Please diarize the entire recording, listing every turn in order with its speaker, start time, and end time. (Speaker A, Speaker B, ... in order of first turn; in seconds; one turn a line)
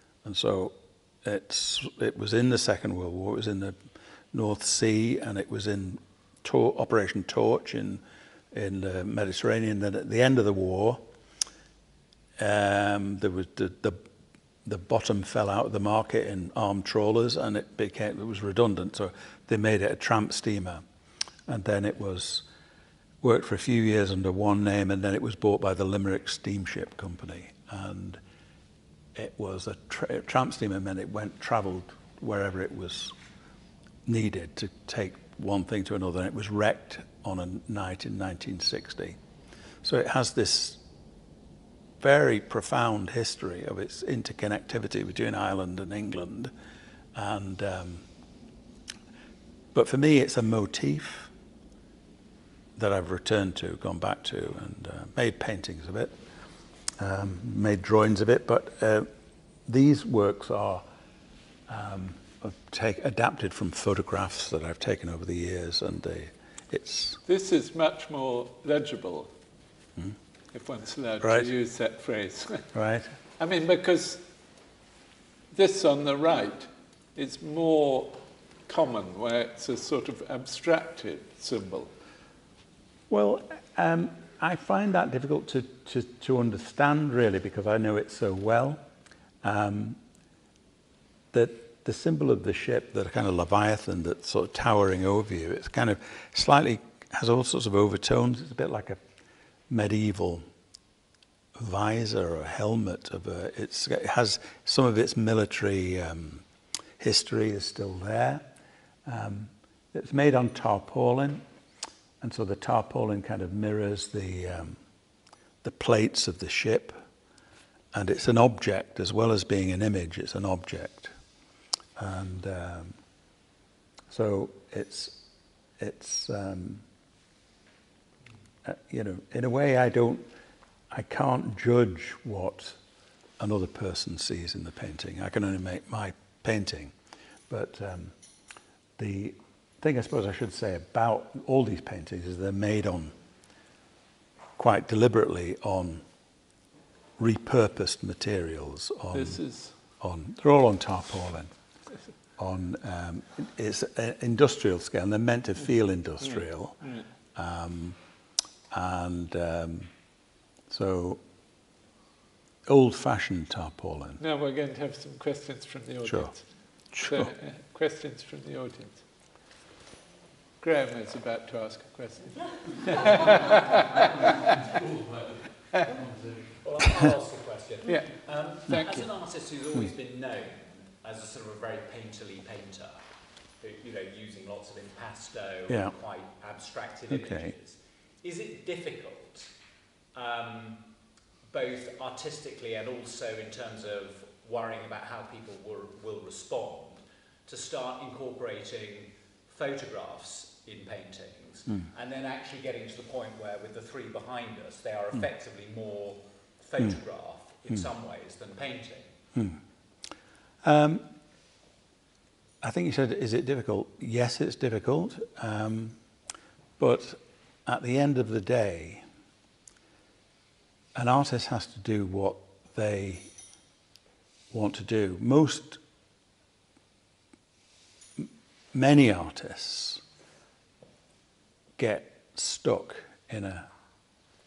Speaker A: 0.2-3.8
Speaker A: 4.3-11.0
Speaker A: 12.4-14.0
Speaker A: 14.7-20.8
Speaker A: 21.5-22.5
Speaker A: 23.2-28.2
Speaker A: 29.1-33.2
Speaker A: 34.0-39.2
Speaker A: 39.8-40.8
Speaker A: 42.0-46.5
Speaker A: 47.1-48.1
Speaker A: 49.7-51.3
Speaker A: 52.8-56.2
Speaker A: 57.0-59.1
Speaker A: 59.7-60.8
Speaker A: 61.7-67.2
Speaker B: 67.2-69.3
Speaker B: 70.5-72.7
Speaker A: 71.2-71.5
Speaker A: 72.7-73.1
Speaker B: 73.4-74.3
Speaker B: 75.5-81.9
Speaker A: 83.1-88.8
Speaker A: 89.4-90.0
Speaker A: 91.3-99.0
Speaker A: 99.7-100.4
Speaker A: 101.6-106.5
Speaker A: 107.0-108.5
Speaker A: 109.1-111.4
Speaker A: 112.2-114.8
Speaker A: 115.6-117.0
Speaker A: 117.9-121.2
Speaker A: 122.0-123.0
Speaker A: 124.1-125.2
Speaker A: 125.8-126.8
Speaker A: 128.6-130.3
Speaker A: 130.9-132.8
Speaker A: 133.4-136.9
Speaker A: 137.5-138.2
Speaker A: 139.0-143.2
Speaker A: 144.6-146.1
Speaker A: 147.2-151.5
Speaker B: 149.1-149.7
Speaker A: 152.4-158.0
Speaker B: 156.2-157.1
Speaker A: 158.7-159.9
Speaker A: 160.7-161.2
Speaker A: 162.7-164.2
Speaker B: 164.2-169.1
Speaker A: 166.1-167.3
Speaker B: 170.6-174.2
Speaker C: 173.0-173.6
Speaker C: 174.4-175.3
Speaker C: 176.5-183.0
Speaker B: 177.9-178.2
Speaker B: 178.7-179.0
Speaker A: 178.7-179.1
Speaker C: 183.6-189.5
Speaker A: 185.7-185.9
Speaker A: 187.1-187.5
Speaker C: 190.1-190.8
Speaker C: 191.5-209.2
Speaker A: 209.3-209.6
Speaker A: 210.6-211.1
Speaker A: 212.6-216.0
Speaker A: 216.8-219.0
Speaker A: 220.9-223.3
Speaker A: 224.5-225.8
Speaker A: 228.2-230.0
Speaker A: 231.8-233.7